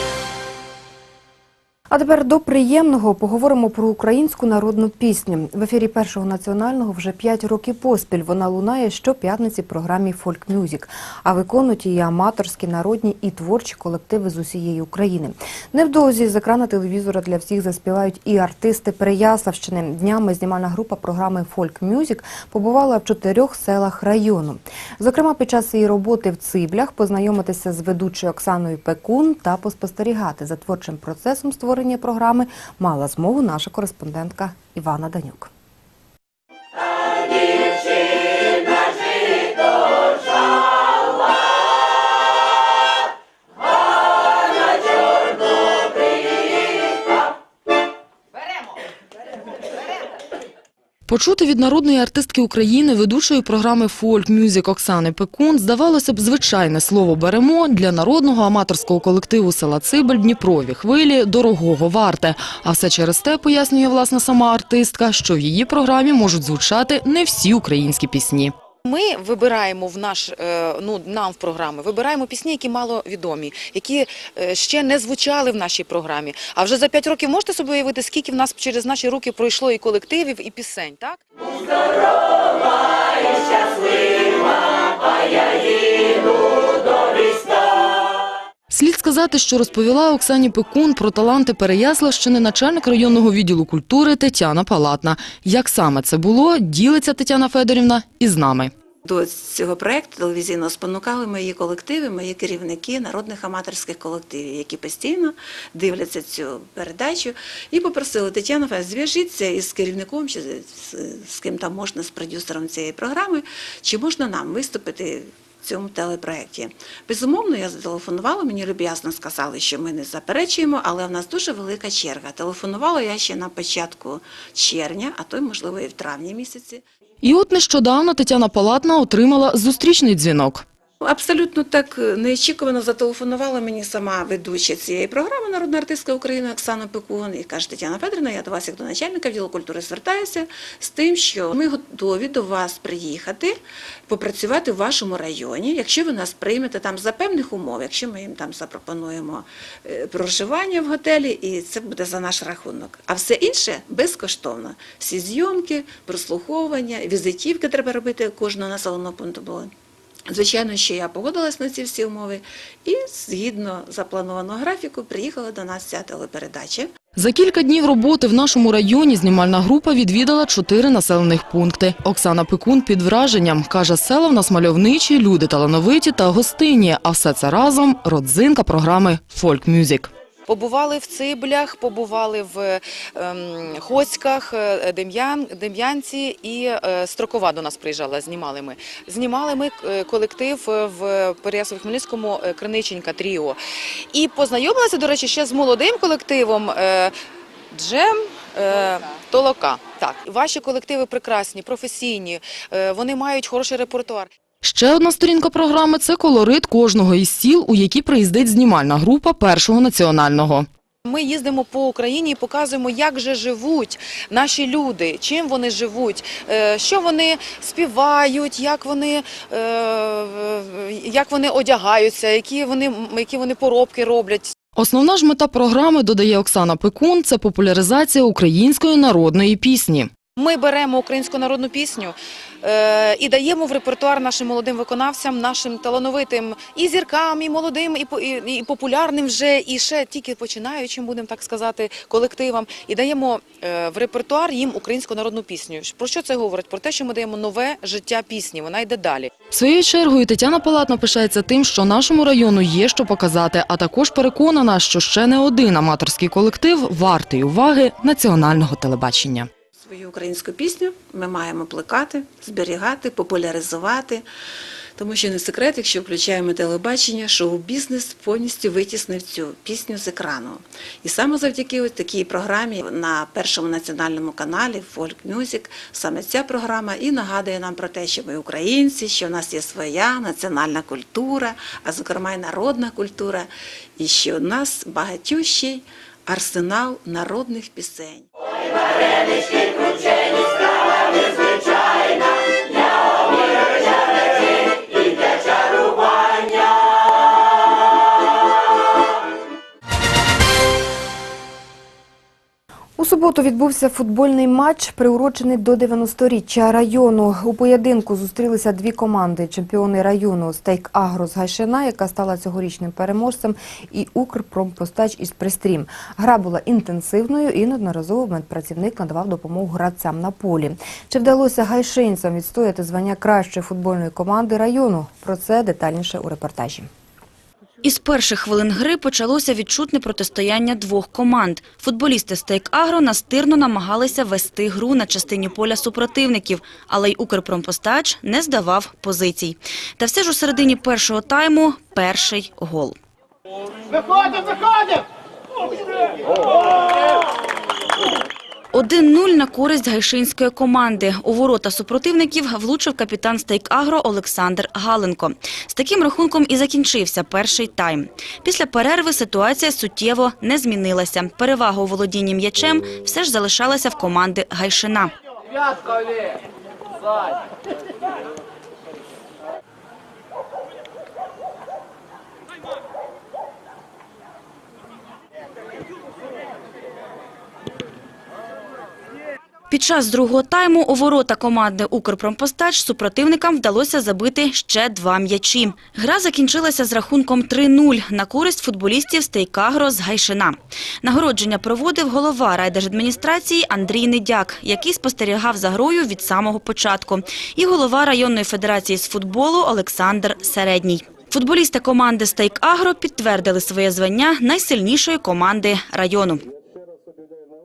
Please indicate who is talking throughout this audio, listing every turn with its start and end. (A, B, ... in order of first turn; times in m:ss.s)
0:01.9-0:35.5 A
0:51.1-1:08.5 B
1:08.8-1:21.2 C
1:28.7-1:38.7 B
1:39.0-2:06.8 D
2:07.2-2:10.6 B
2:11.0-2:23.5 D
2:24.1-2:39.7 D
2:40.3-2:46.9 D
2:47.2-3:00.1 B
3:00.5-3:13.6 C
3:14.1-3:17.1 C
3:17.7-3:24.3 C
3:24.6-3:30.7 B
3:31.0-3:44.5 C
3:44.7-3:50.1 B
3:50.4-4:09.3 C
4:09.5-4:19.5 B
4:19.8-4:24.2 D
4:25.0-4:48.2 D
4:49.1-4:50.5 D
5:03.0-5:26.9 A
5:27.8-5:43.0 E
5:48.7-6:05.1 E
6:19.7-6:46.4 E